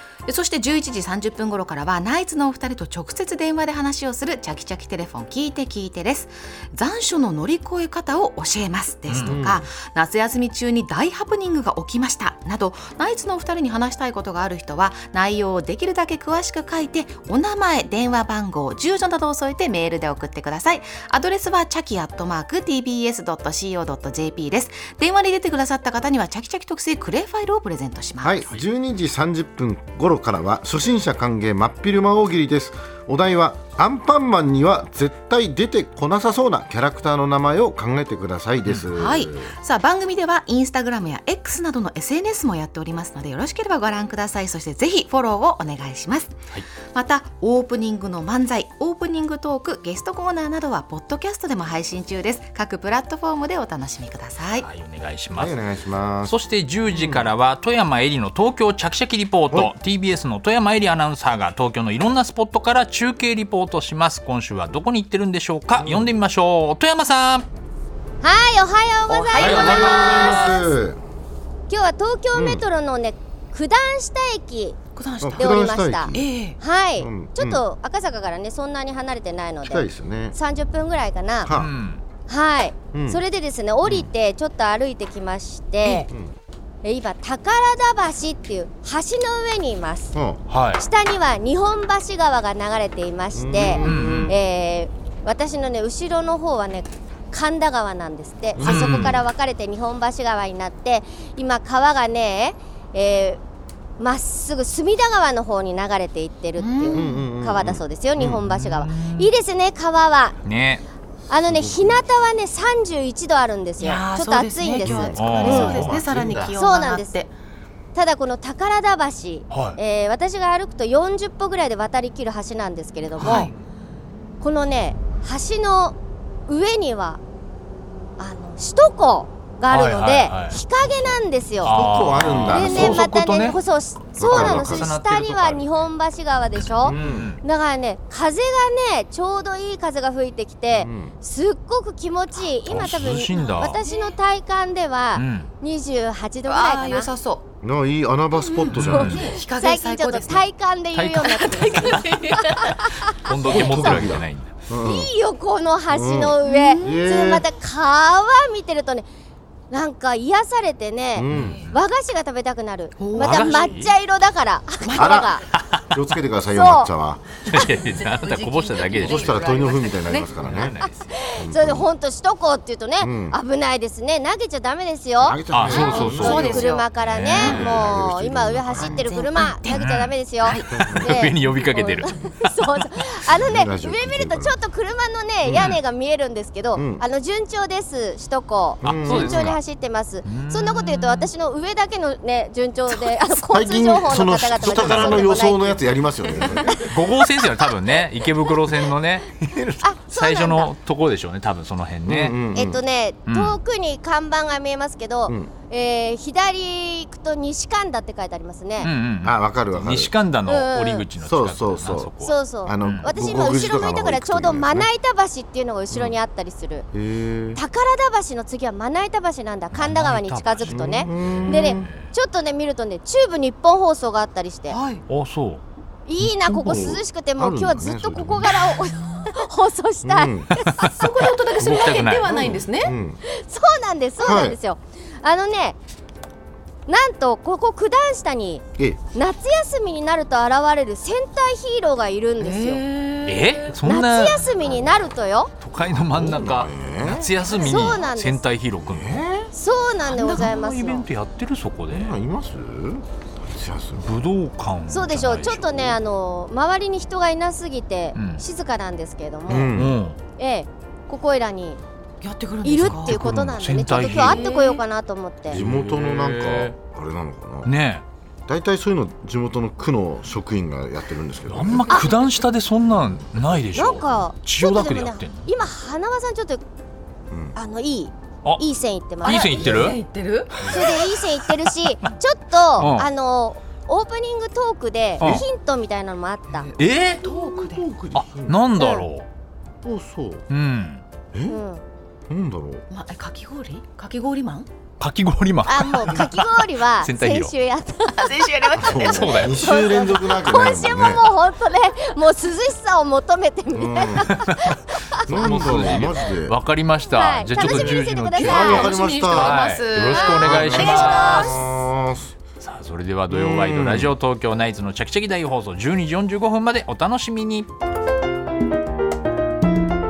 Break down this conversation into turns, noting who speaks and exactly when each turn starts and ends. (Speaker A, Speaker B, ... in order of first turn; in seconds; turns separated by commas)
Speaker A: 0.2-28.5, Speaker B: 9.1-9.4, Speaker C: 9.1-9.7, Speaker C: 28.2-39.5, Speaker A: 38.9-46.4, Speaker A: 46.9-54.7, Speaker B: 54.6-55.6, Speaker C: 55.4-57.3, Speaker B: 56.2-67.5, Speaker C: 65.8-66.2, Speaker D: 68.2-70.8, Speaker A: 69.1-70.4, Speaker C: 69.4-71.0, Speaker B: 69.4-70.5, Speaker D: 71.7-74.8, Speaker C: 72.3-72.7, Speaker A: 75.0-75.6, Speaker C: 75.2-76.3, Speaker D: 75.4-81.5, Speaker A: 76.1-76.6, Speaker C: 77.0-77.6, Speaker C: 79.6-80.4, Speaker C: 81.4-81.7, Speaker B: 81.5-82.0, Speaker D: 82.3-86.1, Speaker C: 82.9-83.2, Speaker C: 86.0-86.3, Speaker D: 86.8-90.2, Speaker C: 90.1-90.4, Speaker B: 90.5-90.8, Speaker D: 90.8-103.4, Speaker C: 93.3-94.4, Speaker B: 93.8-94.3, Speaker C: 98.5-99.2, Speaker B: 98.6-99.2, Speaker D: 104.0-110.4, Speaker A: 106.6-107.3, Speaker C: 106.9-108.5, Speaker B: 108.5-109.3, Speaker B: 110.5-110.8, Speaker D: 111.3-115.8, Speaker C: 111.4-112.0, Speaker A: 113.8-117.3, Speaker C: 114.8-116.6, Speaker B: 115.2-116.0, Speaker D: 116.5-117.2, Speaker D: 118.0-123.5, Speaker B: 119.5-119.8, Speaker A: 123.2-123.5, Speaker B: 123.2-123.5, Speaker D: 124.4-126.0, Speaker D: 126.5-127.2, Speaker D: 128.2-147.1, Speaker B: 129.7-130.6, Speaker B: 131.6-133.6, Speaker C: 131.6-133.1, Speaker B: 134.2-135.9, Speaker C: 134.2-134.9, Speaker B: 136.6-137.4, Speaker C: 136.8-137.4, Speaker C: 140.7-141.2, Speaker B: 142.4-143.8, Speaker A: 143.3-144.2, Speaker B: 145.1-145.5, Speaker A: 146.4-147.5, Speaker C: 147.6-149.4, Speaker A: 148.4-150.5, Speaker B: 148.7-149.3, Speaker D: 148.9-153.6, Speaker B: 150.9-151.8, Speaker A: 151.2-152.9, Speaker B: 153.2-154.5, Speaker C: 153.4-155.1, Speaker A: 153.5-153.8, Speaker D: 154.8-159.1, Speaker C: 155.9-157.5, Speaker A: 156.4-157.0, Speaker D: 159.7-165.4, Speaker C: 161.1-161.6, Speaker B: 161.3-161.8, Speaker A: 161.4-161.7, Speaker A: 163.0-163.7, Speaker B: 163.2-163.9, Speaker A: 164.8-165.2, Speaker C: 164.9-165.4, Speaker B: 165.5-165.8, Speaker C: 165.9-167.2, Speaker D: 166.5-166.9, Speaker B: 167.5-171.1, Speaker A: 167.5-170.3, Speaker C: 168.9-170.8, Speaker D: 170.8-195.8, Speaker C: 171.4-171.9, Speaker C: 173.0-173.4, Speaker C: 175.2-176.8, Speaker B: 175.5-177.7, Speaker A: 175.7-177.8, Speaker C: 177.3-179.1, Speaker A: 178.8-179.8, Speaker B: 179.7-182.1, Speaker A: 180.4-180.9, Speaker C: 180.8-181.1, Speaker C: 183.3-184.6, Speaker C: 185.4-185.8, Speaker B: 185.5-185.8, Speaker C: 186.7-187.0, Speaker C: 188.8-189.5, Speaker B: 188.8-189.6, Speaker B: 190.2-191.3, Speaker C: 193.3-197.1, Speaker B: 194.6-195.3, Speaker D: 196.4-196.7, Speaker B: 196.8-202.4, Speaker C: 199.5-199.8, Speaker D: 199.8-200.7, Speaker C: 202.1-202.8, Speaker D: 202.5-208.9, Speaker B: 203.3-203.6, Speaker B: 208.8-213.1, Speaker C: 209.2-210.1, Speaker D: 210.5-211.1, Speaker C: 211.2-212.1, Speaker D: 212.2-216.9, Speaker C: 212.6-214.9, Speaker C: 215.9-216.2, Speaker C: 216.9-217.6, Speaker D: 217.6-224.8, Speaker B: 219.7-222.1, Speaker C: 220.7-221.9, Speaker A: 224.7-225.0, Speaker B: 225.1-225.6, Speaker D: 226.1-231.3, Speaker C: 226.2-228.8, Speaker C: 230.0-230.5, Speaker A: 231.0-232.9, Speaker C: 231.6-233.2, Speaker B: 231.6-232.3, Speaker D: 233.2-235.8, Speaker C: 234.2-234.6, Speaker D: 236.9-238.6, Speaker C: 238.8-239.0, Speaker D: 239.1-242.8, Speaker A: 242.4-243.8, Speaker B: 243.2-244.5, Speaker D: 243.8-245.5, Speaker B: 245.6-249.2, Speaker C: 245.8-247.9, Speaker D: 247.5-248.4, Speaker C: 248.8-249.5, Speaker D: 249.5-251.1, Speaker B: 250.1-252.2, Speaker C: 251.9-254.1, Speaker B: 254.0-255.9, Speaker D: 254.9-259.8, Speaker B: 258.1-258.4, Speaker C: 259.5-260.0, Speaker B: 259.7-260.2, Speaker D: 260.4-261.8, Speaker A: 262.2-263.2, Speaker D: 262.6-265.6, Speaker B: 262.8-264.4, Speaker A: 264.1-264.8, Speaker B: 265.5-266.8, Speaker C: 265.5-267.7, Speaker B: 267.6-268.1, Speaker C: 268.5-272.0, Speaker B: 271.5-275.5, Speaker D: 271.9-272.2, Speaker D: 273.7-276.6, Speaker C: 277.3-277.6, Speaker D: 277.5-279.6, Speaker B: 279.2-280.0, Speaker A: 279.2-280.7, Speaker C: 280.6-280.9, Speaker D: 280.6-286.7, Speaker B: 281.7-282.1, Speaker B: 282.8-283.1, Speaker B: 285.2-285.4, Speaker A: 286.5-287.9, Speaker B: 286.8-287.2, Speaker C: 287.2-288.6, Speaker B: 288.1-289.3, Speaker D: 288.8-289.0, Speaker C: 289.8-290.4, Speaker B: 290.5-291.0, Speaker C: 291.3-291.6, Speaker D: 291.5-291.8, Speaker C: 292.3-292.9, Speaker A: 292.9-294.7, Speaker B: 295.0-297.5, Speaker D: 295.7-298.3, Speaker A: 298.2-299.6, Speaker C: 298.8-301.3, Speaker B: 299.0-299.7, Speaker D: 299.3-306.1, Speaker C: 303.7-304.4, Speaker B: 304.4-304.8, Speaker C: 305.3-306.6, Speaker B: 305.3-308.7, Speaker D: 307.1-309.0, Speaker C: 307.7-309.6, Speaker A: 308.4-311.6, Speaker B: 309.3-311.5, Speaker D: 310.1-311.5, Speaker C: 310.3-312.3, Speaker B: 312.6-317.7, Speaker C: 313.3-314.1